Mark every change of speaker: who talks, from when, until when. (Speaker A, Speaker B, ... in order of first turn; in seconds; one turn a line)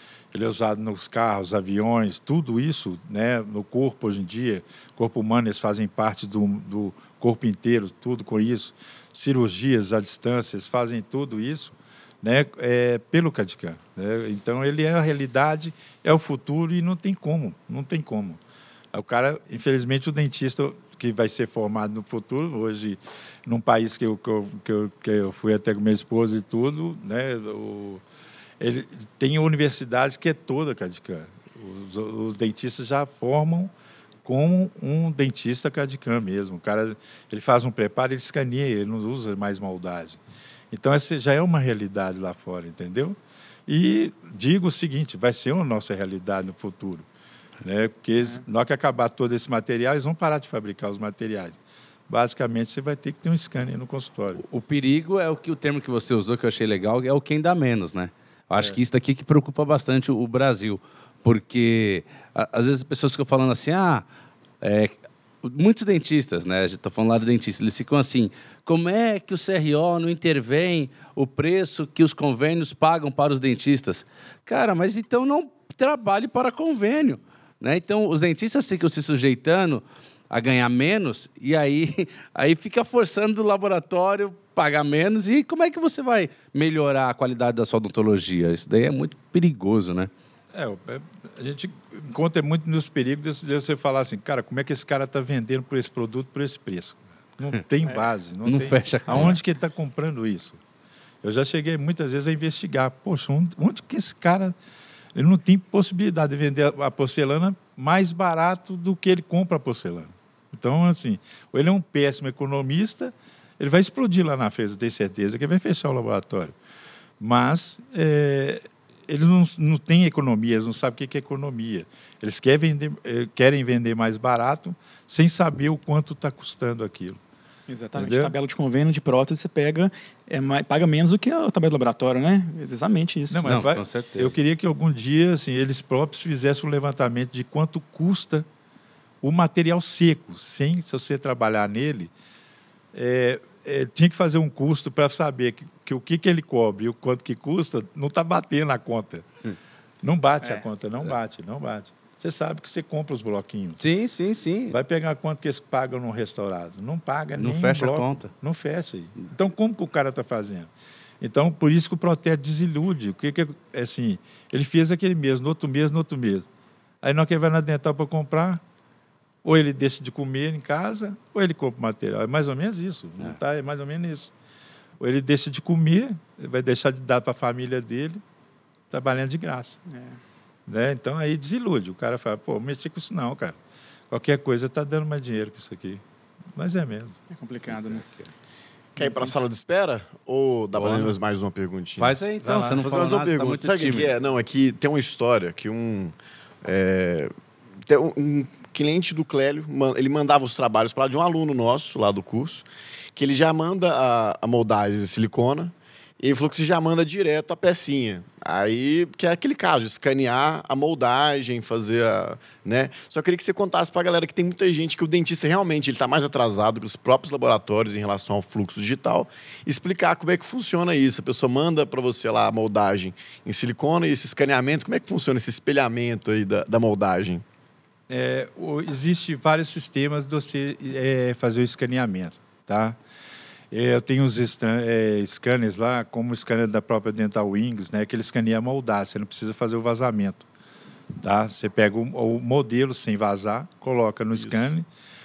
Speaker A: 0.3-18.4
Speaker A: 18.9-28.0
Speaker A: 28.6-33.7
Speaker A: 34.2-40.2
Speaker A: 40.7-47.1
Speaker A: 47.6-54.4
Speaker B: 54.4-64.0
Speaker B: 64.6-90.1
Speaker A: 90.5-100.6
Speaker B: 98.5-99.4
Speaker A: 101.2-104.5
Speaker A: 105.1-116.5
Speaker A: 117.2-127.2
Speaker C: 127.7-133.5
Speaker A: 128.0-128.3
Speaker A: 133.3-138.4
Speaker B: 133.4-134.3
Speaker A: 139.2-142.1
Speaker A: 142.9-149.3
Speaker A: 150.0-153.8
Speaker B: 153.8-154.8
Speaker A: 154.7-160.7
Speaker B: 157.4-158.3
Speaker A: 161.2-166.5
Speaker A: 167.0-168.6
Speaker A: 169.4-174.3
Speaker A: 175.0-178.2
Speaker A: 178.9-179.8
Speaker C: 179.9-180.2
Speaker A: 180.7-183.6
Speaker A: 184.1-186.0
Speaker A: 186.6-187.2
Speaker C: 187.3-188.0
Speaker B: 187.7-188.3
Speaker D: 188.9-192.1
Speaker C: 189.0-189.3
Speaker B: 192.0-194.1
Speaker A: 192.4-192.9
Speaker D: 192.8-197.3
Speaker D: 197.9-227.4
Speaker A: 228.1-233.0
Speaker A: 233.7-240.4
Speaker A: 241.2-244.9